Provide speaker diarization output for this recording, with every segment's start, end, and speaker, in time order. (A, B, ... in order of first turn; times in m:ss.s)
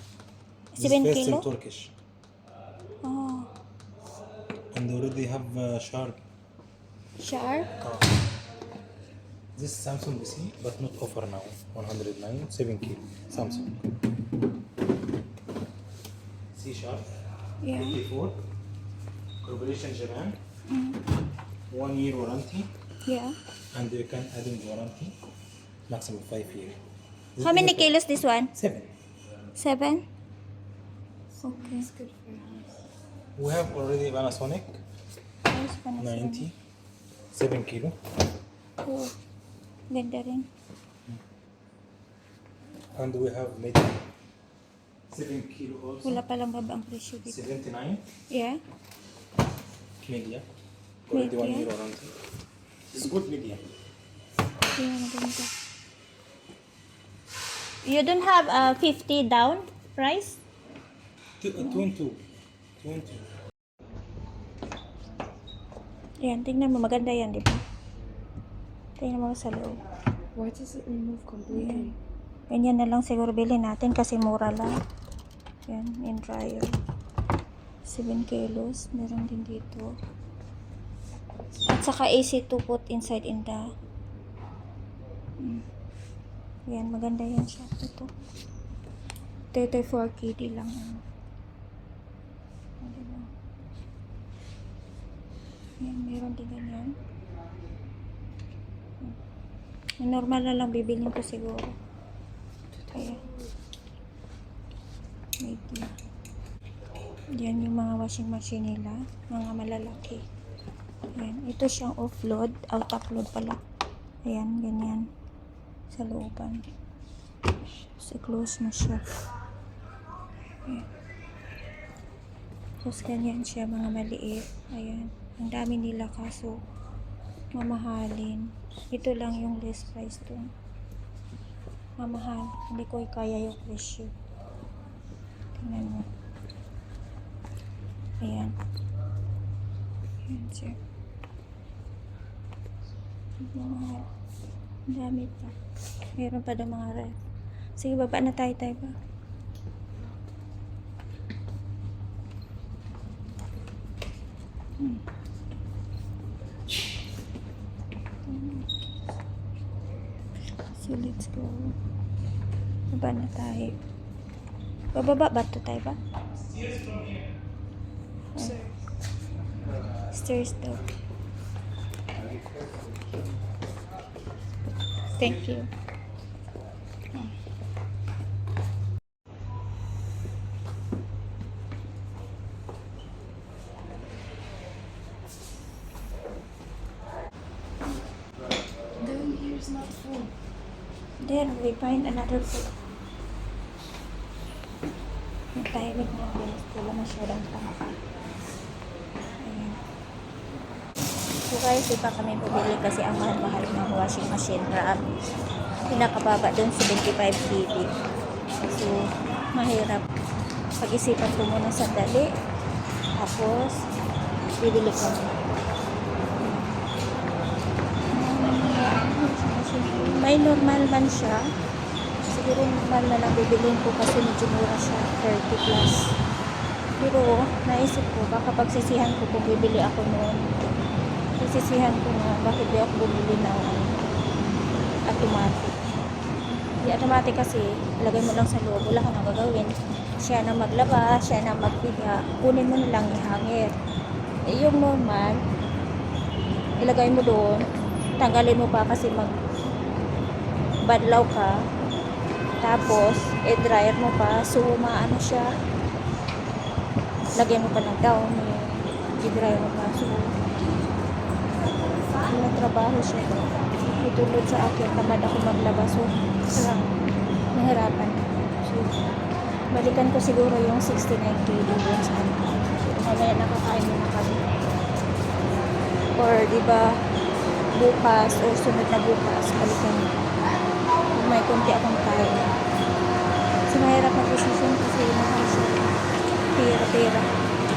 0:00.7-0:01.5 A
0:00.8-0:01.9 B
0:03.0-0:03.5 A
0:04.7-0:06.2 B
0:07.2-0:07.7 A
0:07.8-0:08.1 B
0:09.6-0:13.8 B
0:13.3-0:13.8 A
0:16.5-0:17.1 B
0:17.6-0:18.0 A
0:17.7-0:18.4 B
0:19.4-0:20.4 B
0:20.7-0:21.0 A
0:21.7-0:22.7 B
0:23.0-0:23.4 A
0:23.7-0:25.2 B
0:25.9-0:26.8 B
0:27.4-0:28.0 B
0:27.4-0:28.5 A
0:28.5-0:28.9 B
0:29.6-0:30.0 A
0:31.4-0:31.9 A
0:31.4-0:32.7 C
0:33.4-0:34.8 B
0:35.5-0:36.5 A
0:36.0-0:36.6 B
0:37.3-0:38.0 B
0:38.8-0:39.1 A
0:39.9-0:40.5 A
0:42.9-0:44.0 B
0:45.1-0:46.2 B
0:46.0-0:47.4 A
0:47.2-0:48.1 B
0:48.3-0:48.6 A
0:50.0-0:50.5 B
0:51.1-0:52.1 B
0:51.1-0:51.7 A
0:52.9-0:53.7 B
0:54.7-0:55.5 A
0:57.8-1:00.4 A
1:01.4-1:02.2 B
1:02.8-1:03.2 B
1:06.2-1:07.6 A
1:09.0-1:09.8 A
1:10.3-1:12.0 C
1:11.5-1:11.9 A
1:12.5-1:14.7 A
1:15.6-1:16.7 A
1:17.8-1:19.9 A
1:21.6-1:23.6 A
1:26.7-1:28.1 A
1:29.5-1:31.0 A
1:32.8-1:33.3 A
1:35.8-1:37.0 A
1:40.0-1:41.8 A
1:42.9-1:43.2 A
1:45.4-1:45.9 A
1:47.3-1:50.2 A
1:51.1-1:53.6 A
1:54.2-1:55.0 A
1:55.9-1:56.6 A
1:58.0-1:59.0 A
2:02.8-2:06.6 A
2:07.5-2:10.5 A
2:12.0-2:14.1 A
2:15.6-2:16.1 A
2:18.2-2:18.5 A
2:20.3-2:20.8 A
2:23.4-2:24.1 A
2:24.9-2:25.6 A
2:26.1-2:27.2 A
2:27.8-2:28.9 A
2:38.3-2:38.8 A
2:40.7-2:41.8 A
2:42.9-2:43.8 A
2:44.9-2:46.0 A
2:46.4-2:47.3 B
2:48.3-2:48.6 A
2:48.4-2:48.7 C
2:50.1-2:50.9 A
2:55.1-2:55.7 A
3:09.0-3:10.3 C
3:11.2-3:12.7 A
3:15.5-3:17.9 A
3:19.4-3:19.8 A
3:21.4-3:25.0 A
3:25.9-3:27.9 A
3:28.7-3:29.0 A
3:29.5-3:30.1 A
3:30.8-3:32.3 A
3:33.2-3:33.8 A
3:34.6-3:35.4 A
3:36.4-3:36.7 A
3:38.1-3:41.4 A
3:42.3-3:46.0 A
3:47.0-3:50.6 A
3:51.4-3:54.0 A
3:55.0-3:55.9 A
3:56.8-4:03.7 A
4:04.5-4:05.4 A
4:06.8-4:07.7 A
4:08.2-4:09.4 A
4:10.8-4:11.5 A
4:12.6-4:15.5 A
4:17.4-4:20.3 A
4:22.2-4:26.9 A
4:27.5-4:29.0 A
4:29.7-4:34.4 A
4:36.2-4:36.9 A
4:37.7-4:40.2 A
4:41.1-4:42.5 A
4:43.7-4:46.0 A
4:46.5-4:47.3 A